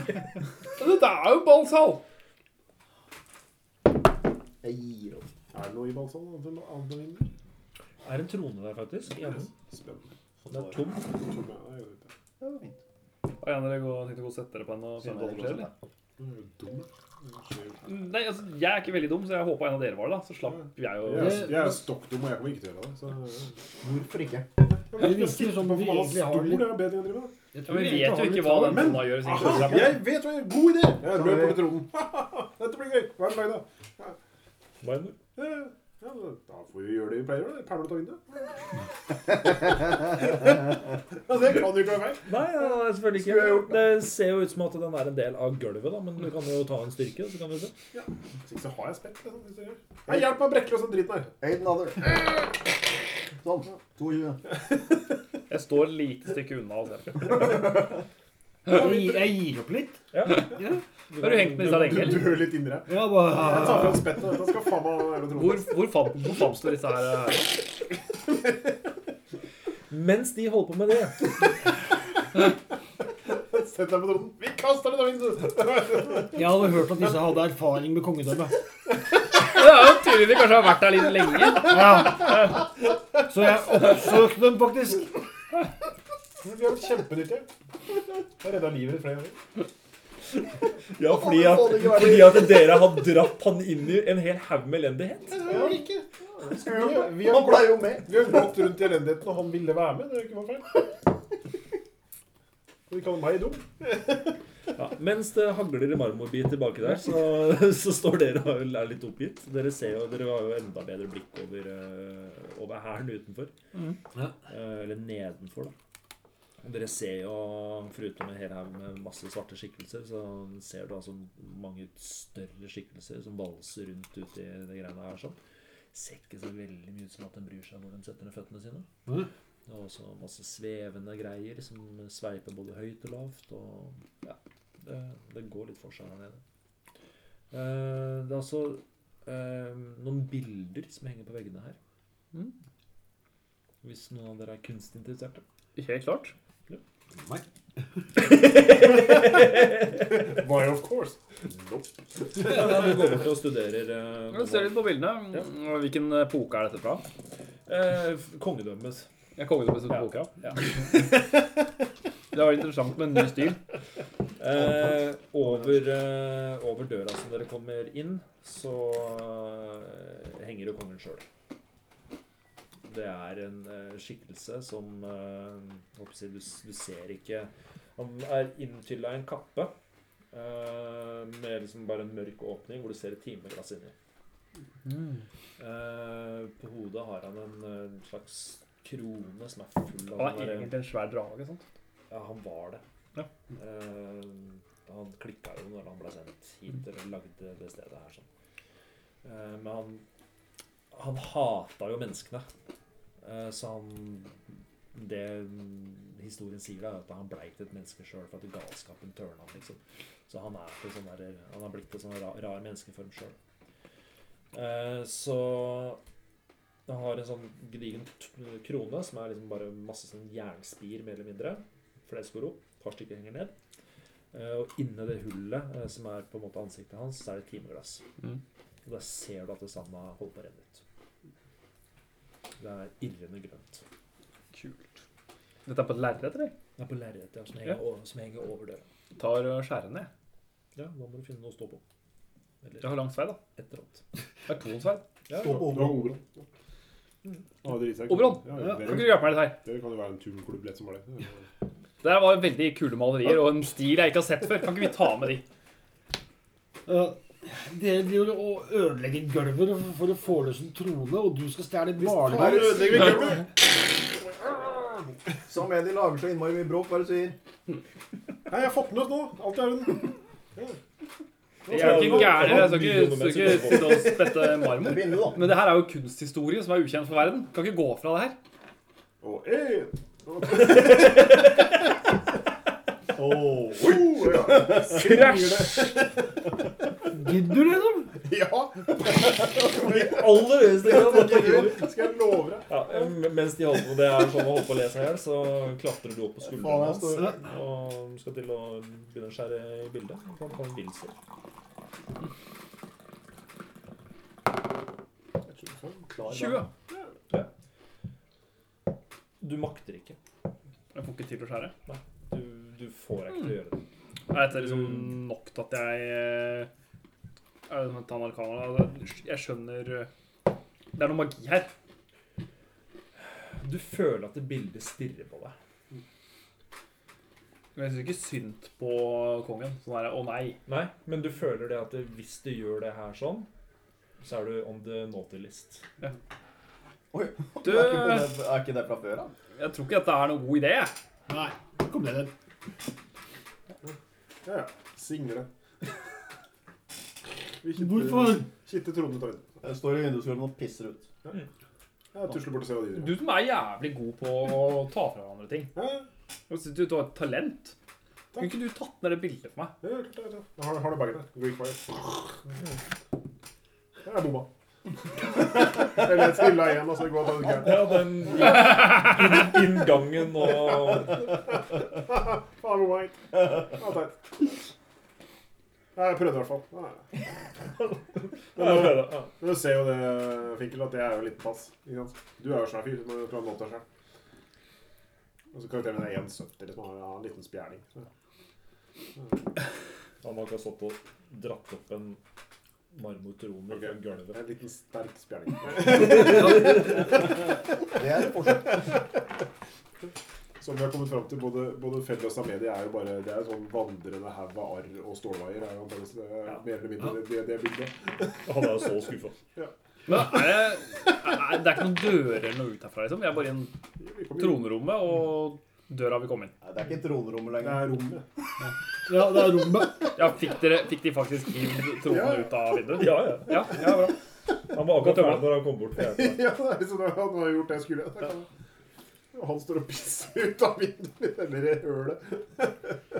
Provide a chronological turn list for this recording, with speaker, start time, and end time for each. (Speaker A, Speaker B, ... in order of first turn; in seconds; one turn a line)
Speaker A: 0.8-2.0
Speaker B: 4.6-5.3
Speaker C: 5.5-7.3
Speaker D: 8.0-9.5
Speaker C: 9.2-10.1
Speaker D: 10.5-11.1
Speaker C: 11.1-12.1
Speaker B: 12.4-12.8
Speaker A: 13.4-15.7
Speaker B: 15.0-15.7
Speaker C: 16.2-17.8
Speaker A: 17.8-21.6
Speaker C: 20.6-23.6
Speaker E: 21.1-21.8
Speaker B: 23.8-24.5
Speaker C: 24.9-27.3
Speaker E: 24.9-26.9
Speaker E: 27.5-29.0
Speaker A: 27.7-30.0
Speaker C: 28.3-34.2
Speaker B: 31.0-31.6
Speaker D: 34.8-35.2
Speaker C: 35.4-38.5
Speaker C: 39.3-42.3
Speaker D: 42.2-47.7
Speaker B: 43.1-43.8
Speaker C: 47.9-51.3
Speaker B: 51.4-52.5
Speaker B: 53.4-54.5
Speaker A: 55.5-57.9
Speaker E: 58.7-64.1
Speaker D: 60.1-60.5
Speaker A: 61.1-62.3
Speaker C: 61.7-65.8
Speaker A: 65.3-67.6
Speaker D: 69.9-71.3
Speaker C: 73.2-76.7
Speaker E: 76.3-78.6
Speaker A: 79.4-81.7
Speaker E: 81.6-85.1
Speaker C: 86.4-87.5
Speaker C: 88.4-89.4
Speaker D: 90.9-95.7
Speaker B: 91.0-92.9
Speaker C: 95.4-100.9
Speaker B: 95.5-98.4
Speaker C: 102.9-104.3
Speaker D: 104.7-113.5
Speaker D: 114.5-115.7
Speaker D: 116.6-125.4
Speaker D: 125.9-128.9
Speaker D: 129.7-136.4
Speaker D: 137.5-141.8
Speaker D: 143.8-145.4
Speaker A: 145.8-146.3
Speaker E: 147.2-147.4
Speaker D: 148.2-149.8
Speaker C: 150.1-152.6
Speaker D: 152.4-155.4
Speaker A: 154.3-157.0
Speaker D: 157.7-159.1
Speaker A: 159.3-161.1
Speaker D: 159.9-160.6
Speaker A: 162.3-163.6
Speaker D: 164.4-171.2
Speaker D: 172.8-179.7
Speaker D: 180.3-183.9
Speaker A: 184.8-185.2
Speaker D: 185.6-190.7
Speaker A: 190.1-191.7
Speaker D: 192.1-192.8
Speaker D: 193.5-198.3
Speaker D: 199.2-200.0
Speaker D: 200.9-202.5
Speaker D: 203.2-204.4
Speaker D: 204.9-213.3
Speaker D: 214.5-216.0
Speaker D: 216.9-223.5
Speaker D: 224.3-228.0
Speaker D: 228.8-230.8
Speaker D: 232.6-233.8
Speaker A: 234.5-235.0
Speaker A: 235.7-236.5
Speaker D: 236.8-238.8
Speaker A: 239.2-240.1
Speaker D: 240.8-241.8
Speaker D: 242.6-242.9
Speaker A: 242.8-243.4
Speaker D: 243.5-244.0
Speaker A: 244.5-245.1
Speaker D: 245.3-245.7
Speaker B: 245.3-246.1
Speaker C: 245.4-246.4
Speaker C: 247.6-251.5
Speaker A: 248.1-249.6
Speaker A: 252.0-255.4
Speaker E: 256.9-262.9
Speaker C: 262.0-263.6
Speaker B: 262.0-263.5
Speaker B: 265.4-267.4
Speaker C: 268.5-270.8
Speaker C: 271.7-272.6
Speaker D: 271.7-274.2
Speaker A: 271.7-278.4
Speaker B: 274.6-275.6
Speaker C: 279.2-281.4
Speaker D: 280.6-281.5
Speaker B: 283.1-285.0
Speaker C: 283.8-286.2
Speaker A: 284.9-285.7
Speaker E: 287.1-288.1
Speaker C: 288.2-292.8
Speaker D: 289.6-291.9
Speaker D: 292.7-301.1
Speaker B: 296.4-297.4
Speaker C: 305.5-306.1
Speaker B: 306.1-306.7
Speaker A: 306.2-306.7
Speaker C: 306.9-307.1
Speaker D: 309.4-310.2
Speaker A: 310.9-311.7
Speaker D: 311.9-313.8
Speaker A: 314.3-316.7
Speaker D: 314.5-315.1
Speaker A: 317.7-320.1
Speaker A: 320.9-321.7
Speaker D: 323.6-325.6
Speaker A: 327.7-330.6
Speaker D: 330.6-333.5
Speaker D: 334.2-335.8
Speaker B: 337.1-339.3
Speaker A: 337.6-338.4
Speaker A: 339.6-340.9
Speaker E: 341.3-342.3
Speaker C: 344.4-345.5
Speaker C: 347.6-349.5
Speaker E: 347.7-348.5
Speaker B: 349.6-351.1
Speaker C: 352.1-353.2
Speaker A: 352.9-355.7
Speaker C: 355.7-356.1
Speaker A: 356.5-357.7
Speaker A: 358.3-359.8
Speaker C: 359.8-362.4
Speaker C: 364.0-364.5
Speaker C: 365.2-367.9
Speaker D: 367.5-371.3
Speaker C: 371.0-374.3
Speaker C: 375.9-377.1
Speaker D: 378.5-379.3
Speaker C: 378.6-383.8
Speaker C: 385.5-388.1
Speaker D: 390.2-392.2
Speaker D: 392.9-394.4
Speaker C: 393.7-399.1
Speaker B: 397.8-398.9
Speaker C: 400.6-408.5
Speaker D: 408.4-409.4
Speaker A: 410.1-413.8
Speaker C: 414.0-414.8
Speaker A: 414.3-416.5
Speaker B: 416.6-417.9
Speaker C: 417.6-418.2
Speaker E: 419.1-420.1
Speaker A: 420.1-424.2
Speaker C: 422.1-422.6
Speaker D: 422.9-423.9
Speaker D: 424.7-426.4
Speaker A: 424.9-425.5
Speaker C: 426.0-428.5
Speaker C: 429.3-432.9